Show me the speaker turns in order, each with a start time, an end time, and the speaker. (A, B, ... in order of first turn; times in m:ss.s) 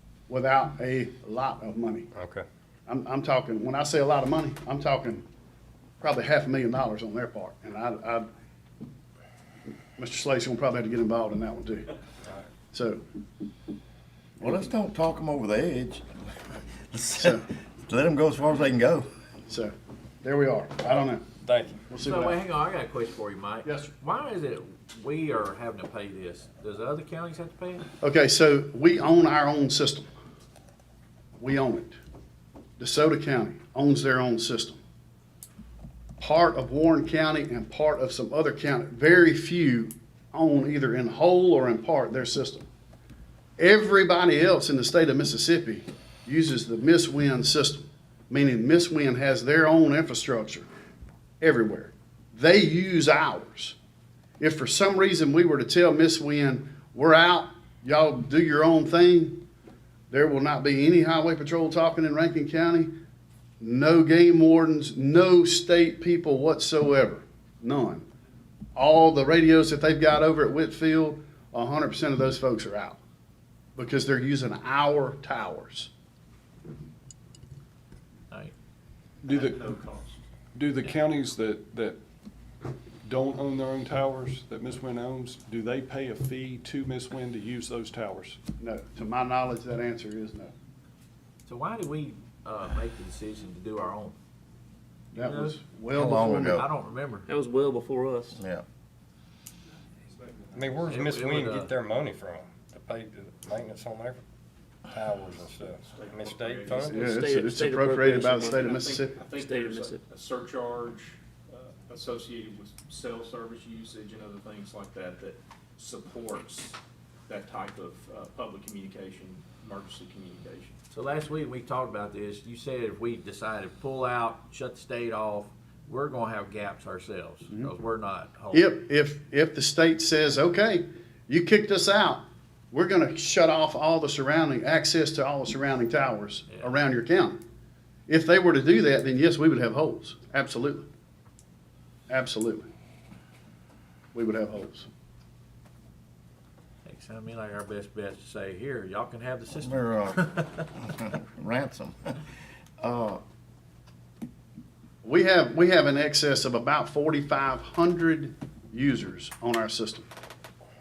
0:00.3-0:02.1 A
0:02.2-0:02.5 B
0:02.9-0:05.2 A
0:06.0-0:08.3 A
0:10.0-0:11.9 A
0:12.7-0:13.0 A
0:14.4-0:16.1 C
0:16.9-0:19.1 C
0:19.5-0:21.3 A
0:21.4-0:21.8 B
0:21.9-0:22.4 A
0:22.0-0:27.9 D
0:23.6-0:23.9 A
0:28.0-0:30.1 A
0:31.4-0:32.0 A
0:32.8-0:34.8 A
0:36.2-0:42.7 A
0:43.6-0:50.7 A
0:51.4-0:53.8 A
0:54.4-0:59.4 A
1:00.1-1:02.9 A
1:03.6-1:08.0 A
1:08.8-1:13.0 A
1:13.8-1:15.9 A
1:19.2-1:20.2 E
1:19.3-1:19.6 F
1:20.6-1:22.0 F
1:20.8-1:21.1 D
1:23.0-1:28.4 F
1:28.6-1:30.5 A
1:31.5-1:34.2 D
1:35.1-1:36.6 A
1:35.2-1:35.6 D
1:35.9-1:36.6 C
1:36.5-1:37.3 D
1:37.3-1:38.4 G
1:38.4-1:38.6 C
1:40.6-1:44.2 B
1:40.8-1:41.7 D
1:44.9-1:47.0 B
1:45.9-1:47.0 E
1:46.9-1:49.2 A
1:47.0-1:48.7 G
1:48.5-1:56.8 E
1:49.4-1:50.0 G
1:57.3-2:00.8 E
2:00.9-2:08.7 D
2:08.5-2:17.4 A
2:16.5-2:16.8 D
2:18.1-2:20.9 A
2:22.1-2:22.7 A
2:24.1-2:24.9 A
2:26.9-2:30.4 D
2:29.6-2:32.2 C
2:32.8-2:33.2 C
2:35.0-2:40.1 A